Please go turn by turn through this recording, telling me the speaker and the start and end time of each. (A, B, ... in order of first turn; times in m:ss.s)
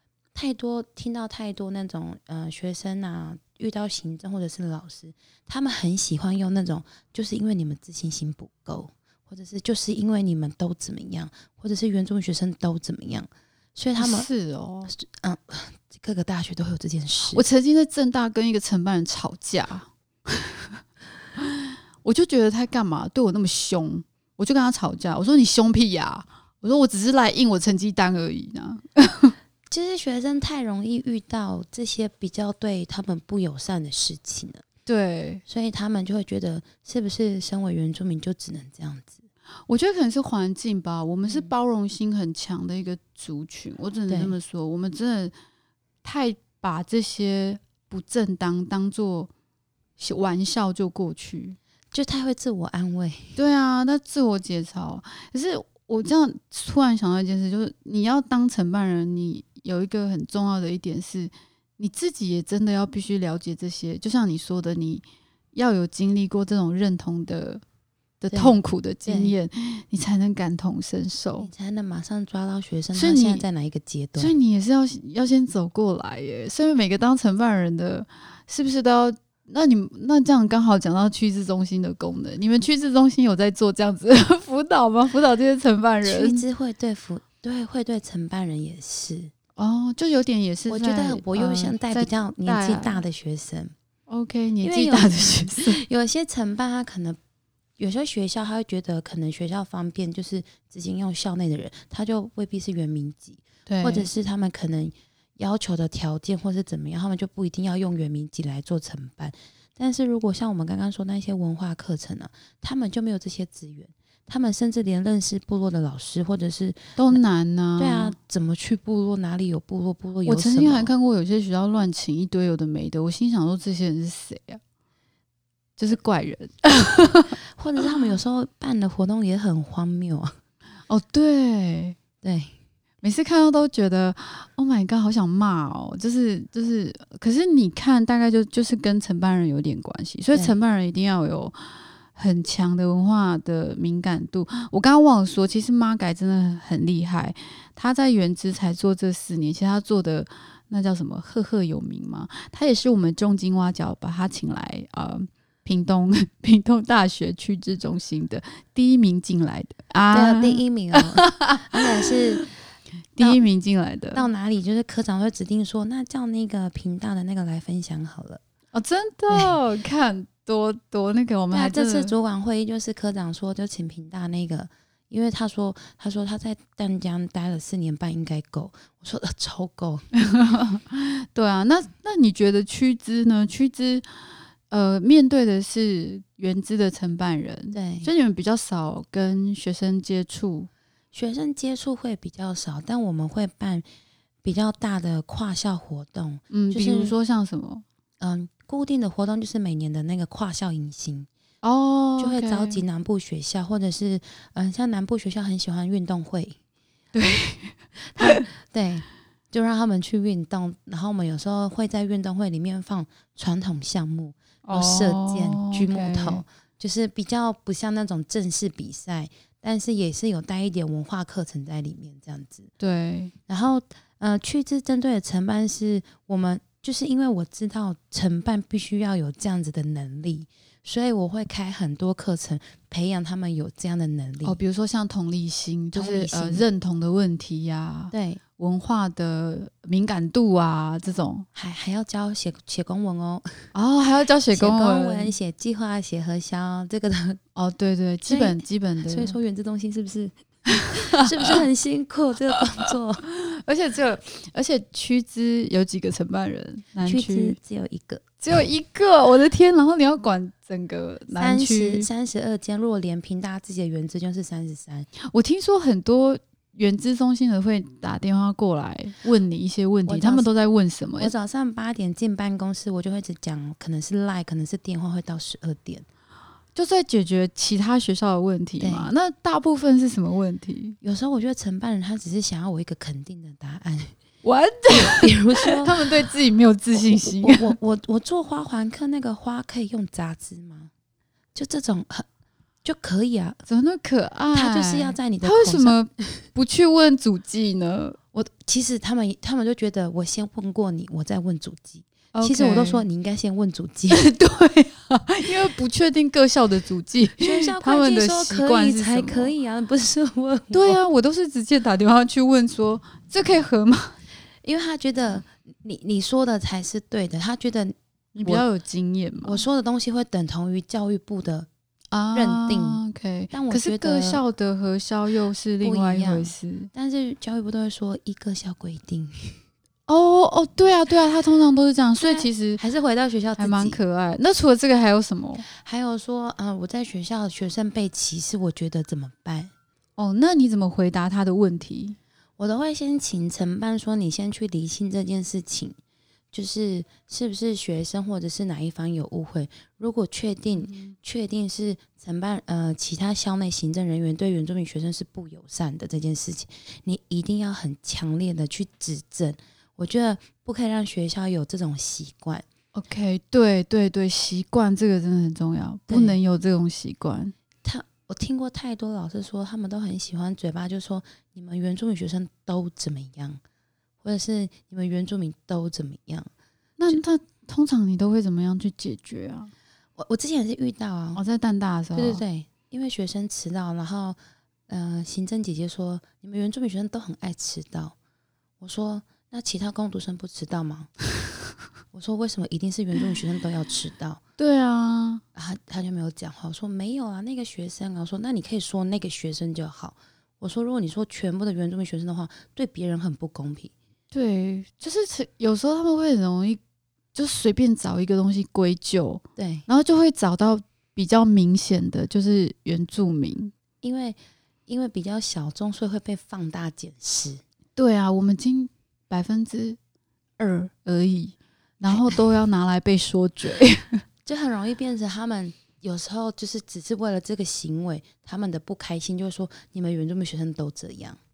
0:00.3-0:14.3 A
0:14.0-0:14.9 B
0:14.9-0:17.4 A
0:17.3-0:20.8 B
0:21.4-0:29.3 B
0:29.7-0:34.6 A
0:34.8-0:35.4 B
0:35.5-0:39.3 A
0:39.7-0:45.3 B
0:44.1-0:44.4 A
0:46.0-0:49.3 B
0:50.0-0:51.6 B
0:51.9-0:53.4 A
0:53.4-1:07.6 B
1:08.2-1:11.5 B
1:08.3-1:09.3 A
1:11.4-1:14.3 A
1:12.9-1:13.4 B
1:14.2-1:26.4 B
1:26.0-1:29.3 A
1:29.6-1:33.0 B
1:30.7-1:33.7 A
1:34.1-1:35.8 B
1:34.6-1:37.2 A
1:37.8-1:57.2 A
1:43.7-1:44.1 B
1:57.0-1:58.1 B
1:57.8-2:00.9 A
2:00.2-2:04.6 B
2:05.8-2:07.4 B
2:07.5-2:10.3 A
2:10.9-2:12.0 B
2:12.2-2:12.5 A
2:13.0-2:42.5 B
2:40.1-2:42.4 A
2:43.1-2:44.2 B
2:44.1-2:48.4 A
2:48.7-2:52.1 B
2:49.3-2:49.6 A
2:51.5-3:00.0 A
3:00.1-3:04.1 B
3:04.7-3:10.7 B
3:07.7-3:08.1 A
3:11.1-3:13.8 A
3:14.4-3:17.1 A
3:16.5-3:17.8 B
3:18.2-3:21.3 A
3:21.6-3:22.8 B
3:22.2-3:26.6 A
3:27.1-3:28.4 B
3:28.1-3:42.7 A
3:34.6-3:36.4 B
3:42.8-3:43.3 B
3:43.5-3:54.6 A
3:54.4-4:01.5 B
3:55.9-3:56.6 A
3:58.1-3:58.4 A
4:01.5-4:03.6 A
4:03.7-4:05.3 B
4:04.5-4:07.4 A
4:07.5-4:09.4 B
4:08.2-4:08.6 A
4:09.1-4:10.3 A
4:10.8-4:11.5 B
4:11.1-4:13.2 A
4:13.2-4:17.6 B
4:17.0-4:18.2 A
4:18.4-4:22.1 B
4:21.3-4:25.1 A
4:25.2-4:31.3 B
4:30.1-4:30.5 A
4:31.2-4:36.0 A
4:36.7-4:41.0 B
4:38.8-4:39.1 A
4:41.0-4:44.2 A
4:44.4-4:47.8 B
4:44.9-4:46.1 A
4:47.0-4:50.9 A
4:51.5-4:52.3 A
4:52.8-4:53.6 A
4:53.6-4:58.2 B
4:54.5-4:56.4 A
4:58.3-5:04.2 A
5:02.3-5:03.0 B
5:04.1-5:09.5 B
5:07.4-5:11.0 A
5:10.7-5:14.2 B
5:14.6-5:18.6 A
5:18.3-5:19.6 B
5:19.4-5:21.7 A
5:22.1-5:26.9 B
5:22.3-5:24.4 A
5:25.8-5:29.6 A
5:30.1-5:32.8 B
5:32.2-5:34.0 A
5:33.6-5:35.6 B
5:35.6-5:39.7 A
5:40.2-5:42.2 B
5:42.6-5:46.0 A
5:46.5-6:02.6 A
5:50.8-5:51.1 B
6:02.9-6:07.5 B
6:06.1-6:06.4 A
6:07.8-6:13.6 A
6:14.2-6:16.5 A
6:17.0-6:19.7 B
6:20.2-6:21.4 A
6:21.4-6:22.4 B
6:22.1-6:28.1 A
6:28.8-6:31.1 A
6:32.1-6:34.4 A
6:34.6-6:35.4 B
6:35.5-6:43.9 A
6:44.3-6:46.8 B
6:47.3-6:53.7 B
6:49.6-6:49.8 A
6:54.0-6:57.6 A
6:58.0-7:00.0 B
7:00.6-7:04.2 B
7:02.1-7:02.4 A
7:04.4-7:11.4 A